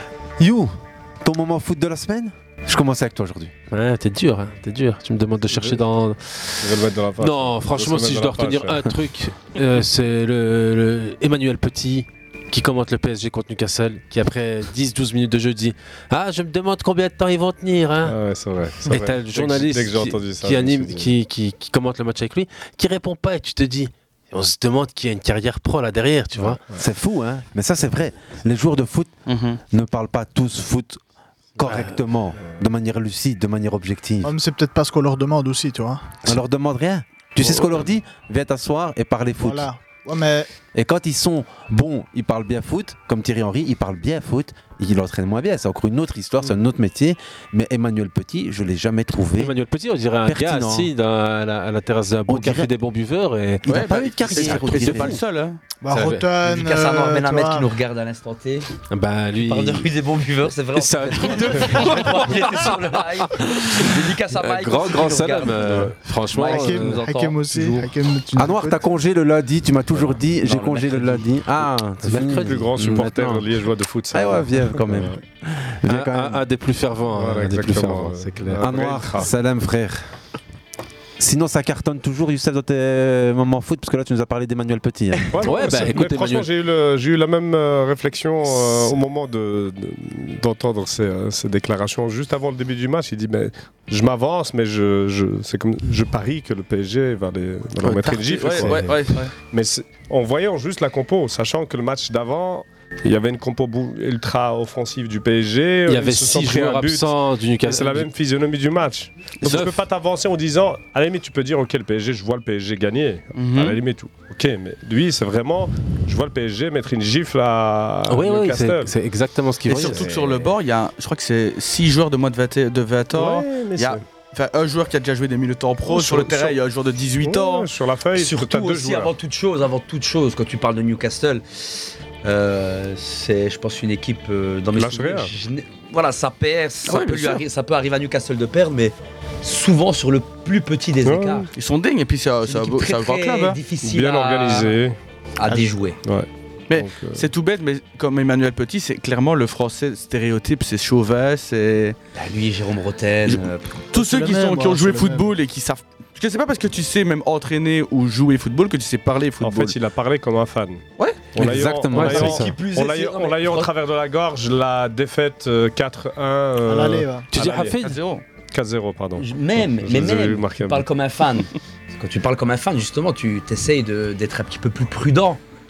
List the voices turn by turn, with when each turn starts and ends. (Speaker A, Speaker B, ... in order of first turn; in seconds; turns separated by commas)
Speaker A: 0.4-3.5, Speaker B: 3.7-6.7, Speaker C: 5.5-5.8, Speaker C: 6.6-8.9, Speaker B: 7.2-18.1, Speaker C: 18.0-21.1, Speaker B: 18.8-26.6, Speaker C: 26.4-26.8, Speaker A: 26.7-29.1, Speaker D: 29.3-29.6, Speaker A: 29.7-31.0, Speaker A: 31.6-34.3, Speaker B: 31.6-31.9, Speaker E: 34.2-36.2, Speaker A: 36.2-39.7, Speaker E: 39.4-40.5, Speaker A: 40.7-49.5, Speaker B: 49.4-55.1, Speaker A: 50.2-50.9, Speaker A: 52.3-52.7, Speaker A: 53.6-55.2, Speaker D: 53.6-55.6, Speaker E: 55.8-57.7, Speaker B: 55.9-56.2, Speaker F: 56.0-58.7, Speaker B: 58.9-59.9, Speaker F: 59.4-67.7, Speaker B: 60.7-67.0, Speaker E: 66.4-68.8, Speaker A: 68.3-73.5, Speaker F: 70.4-71.2, Speaker B: 72.0-73.0, Speaker C: 72.1-75.2, Speaker A: 74.1-76.4, Speaker B: 75.9-78.7, Speaker C: 77.1-79.3, Speaker A: 78.6-80.0, Speaker A: 81.2-85.5, Speaker C: 85.3-118.9, Speaker B: 85.4-86.5, Speaker D: 97.8-99.3, Speaker B: 98.6-98.8, Speaker B: 105.9-108.1, Speaker B: 109.4-109.8, Speaker D: 113.3-113.8, Speaker B: 118.1-120.1, Speaker D: 119.7-127.7, Speaker C: 119.8-120.1, Speaker C: 123.1-124.0, Speaker C: 125.9-126.6, Speaker C: 127.2-129.1, Speaker F: 128.1-141.5, Speaker C: 134.7-135.3, Speaker D: 136.9-137.4, Speaker C: 141.0-141.4, Speaker D: 141.5-143.6, Speaker F: 142.4-144.8, Speaker C: 143.8-145.0, Speaker F: 145.4-146.0, Speaker C: 146.0-147.2, Speaker D: 146.7-152.0, Speaker F: 152.1-153.8, Speaker D: 153.2-159.8, Speaker E: 153.9-155.3, Speaker C: 159.4-160.8, Speaker C: 161.3-167.8, Speaker A: 161.3-162.5, Speaker B: 161.9-162.6, Speaker F: 162.3-163.7, Speaker E: 166.6-167.3, Speaker B: 167.3-168.0, Speaker D: 167.8-168.2, Speaker C: 168.5-170.8, Speaker F: 169.2-175.4